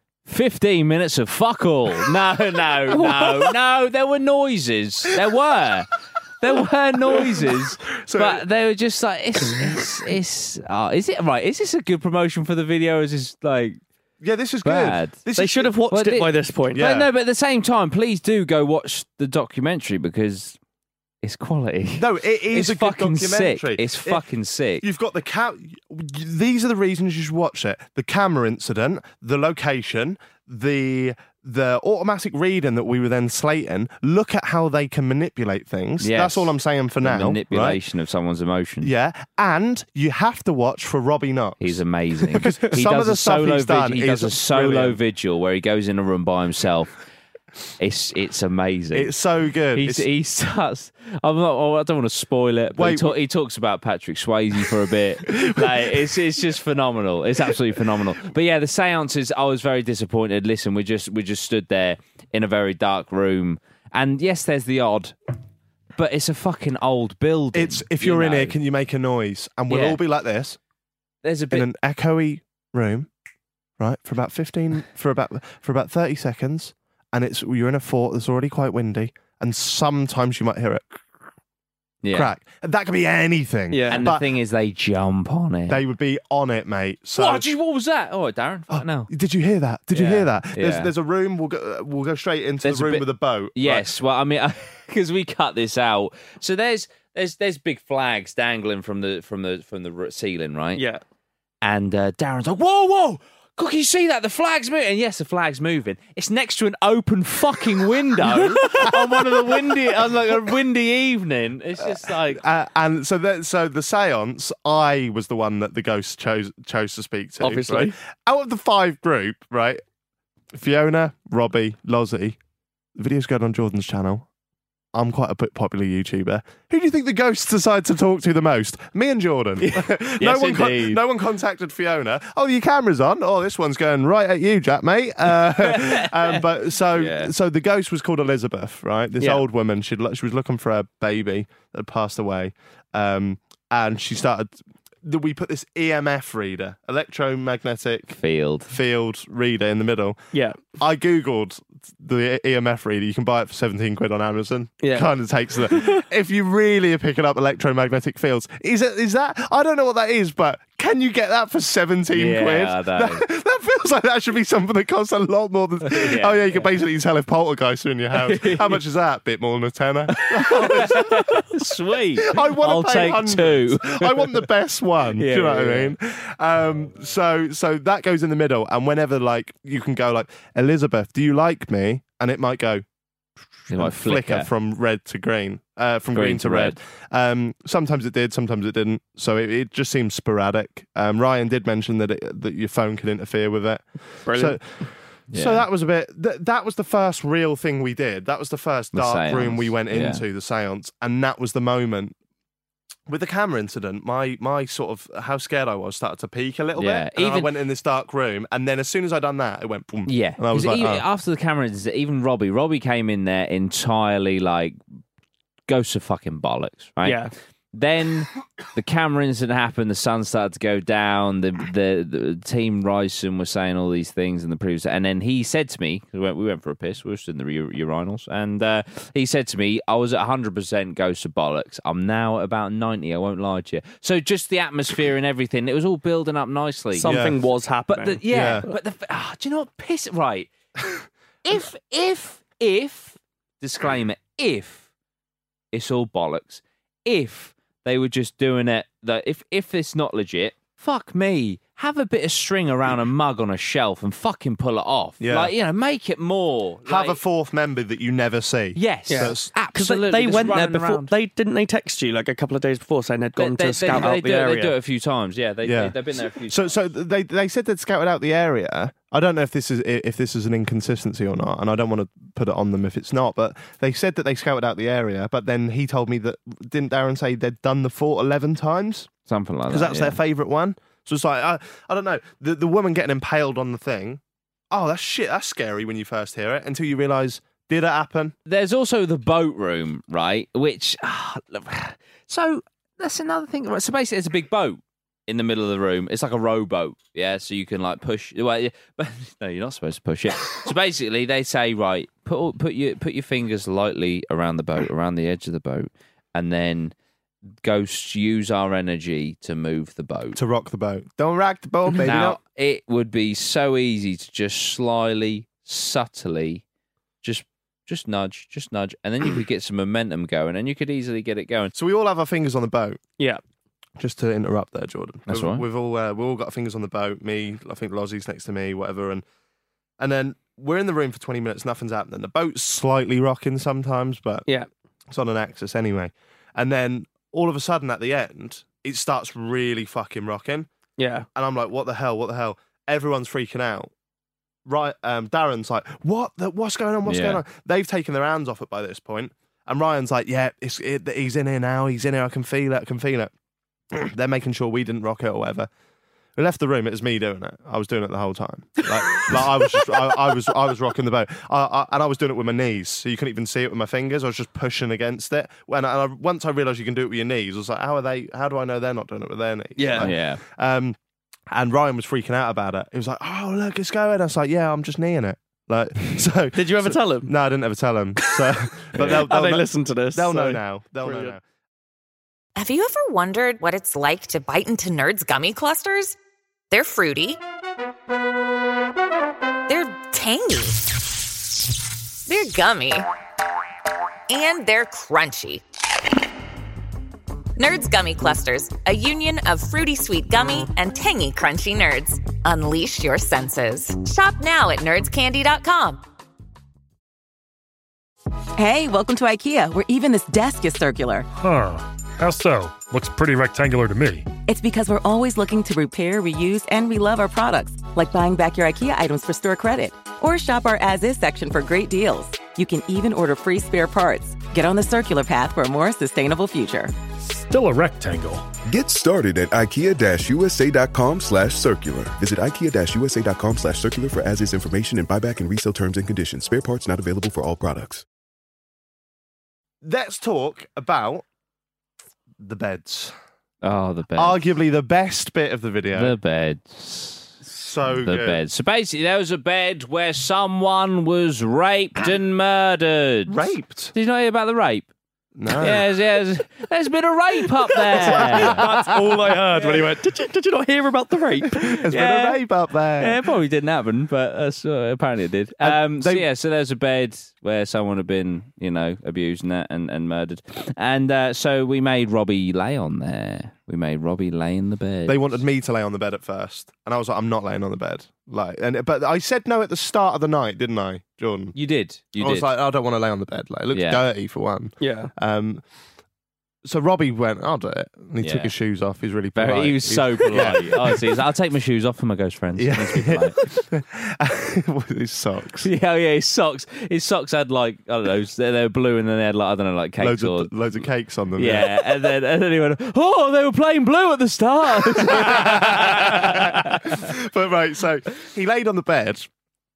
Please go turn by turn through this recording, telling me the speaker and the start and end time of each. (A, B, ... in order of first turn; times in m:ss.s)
0:00.2-0:13.8 A
0:02.9-0:03.2 B
0:02.9-0:03.2 C
0:07.1-0:07.4 B
0:08.0-0:08.4 B
0:14.2-0:15.7 B
0:14.6-0:15.2 A
0:15.4-0:16.8 C
0:15.9-0:20.6 A
0:16.7-0:17.1 B
0:21.2-0:24.8 A
0:21.9-0:24.2 B
0:24.8-0:37.8 B
0:36.0-0:38.9 A
0:38.8-0:45.0 B
0:41.6-0:46.9 A
0:47.8-0:49.1 A
0:48.9-0:50.1 B
0:49.8-1:05.2 A
0:52.8-0:53.2 B
0:55.3-0:55.9 B
1:06.0-1:08.6 A
1:07.5-1:10.6 B
1:09.7-1:10.0 A
1:11.2-1:11.7 A
1:11.5-1:13.1 B
1:13.8-1:21.0 B
1:22.0-1:22.3 A
1:22.1-1:24.3 B
1:23.7-1:24.0 C
1:23.9-1:25.8 A
1:25.7-1:27.5 B
1:27.2-1:29.1 A
1:28.7-1:33.9 B
1:29.9-1:30.9 A
1:32.6-1:40.8 A
1:40.8-1:41.0 C
1:41.6-1:52.4 A
1:48.7-1:49.3 B
1:51.8-1:59.8 B
1:57.4-1:57.9 C
2:00.5-2:02.4 B
2:03.0-2:04.3 B
2:04.9-2:30.2 B
2:09.7-2:11.0 A
2:15.5-2:17.3 A
2:28.1-2:28.7 A
2:30.3-2:30.6 C
2:30.8-2:51.6 B
2:34.8-2:35.1 C
2:42.1-2:43.2 A
2:45.9-2:46.6 A
2:48.1-2:48.8 A
2:50.1-2:54.4 A
2:52.2-3:02.8 B
2:55.2-2:56.0 A
3:03.7-3:14.6 B
3:03.7-3:04.5 A
3:06.1-3:06.8 A
3:14.3-3:14.8 C
3:15.3-3:15.6 A
3:15.3-3:22.1 B
3:18.9-3:20.2 A
3:23.1-3:31.0 B
3:26.8-3:27.5 A
3:30.1-3:34.8 A
3:35.7-3:37.2 A
3:37.0-3:37.3 C
3:37.7-3:57.2 A
3:56.9-3:58.2 C
3:57.0-3:57.4 B
3:57.9-4:00.5 A
3:58.3-3:58.6 B
4:01.4-4:04.9 A
4:05.7-4:17.2 A
4:15.2-4:15.5 B
4:16.9-4:19.5 B
4:18.8-4:21.1 A
4:19.1-4:24.7 C
4:23.4-4:26.8 A
4:25.6-4:26.0 B
4:26.5-4:39.1 B
4:39.3-4:40.2 A
4:39.7-4:48.4 B
4:48.5-5:06.9 A
5:07.6-5:10.4 A
5:10.4-5:12.4 B
5:12.0-5:16.6 A
5:17.2-5:21.7 A
5:21.8-5:23.0 B
5:24.0-5:29.2 B
5:25.3-5:25.6 A
5:30.0-5:34.4 B
5:35.1-5:40.7 B
5:41.0-5:41.3 C
5:41.4-5:43.9 B
5:44.6-5:53.3 B
5:47.0-5:47.4 A
5:53.9-5:55.7 B
5:56.4-6:11.0 B
6:09.8-6:10.1 C
6:10.0-6:10.4 A
6:11.5-6:21.4 B
6:16.5-6:17.3 C
6:19.0-6:21.4 C
6:22.6-6:26.1 D
6:26.7-6:27.4 D
6:29.7-6:30.9 D
6:32.3-6:33.0 D
6:34.3-6:35.6 D
6:37.6-6:46.0 D
6:48.6-6:51.3 E
6:51.4-6:54.3 F
6:54.5-7:06.9 E
7:07.3-7:08.5 F
7:08.7-7:18.0 G
7:19.8-7:21.2 B
7:22.4-7:23.1 B
7:23.6-7:24.4 A
7:24.1-7:26.2 B
7:25.9-7:27.4 A
7:27.5-7:28.4 B
7:27.9-7:33.4 A
7:33.3-7:33.9 B
7:33.9-7:34.9 A
7:35.4-7:35.9 B
7:35.6-7:39.0 A
7:37.8-7:41.8 C
7:37.9-7:38.9 B
7:41.6-7:43.2 B
7:41.9-7:42.4 A
7:43.0-7:55.2 A
7:45.6-7:46.2 B
7:55.1-8:01.6 B
8:01.5-8:02.5 A
8:02.2-8:05.6 B
8:03.7-8:04.0 A
8:04.8-8:05.1 C
8:06.6-8:11.2 B
8:08.2-8:08.5 A
8:09.4-8:13.4 A
8:12.6-8:15.7 B
8:15.6-8:20.5 A
8:20.0-8:22.1 B
8:21.4-8:27.1 A
8:24.8-8:29.3 B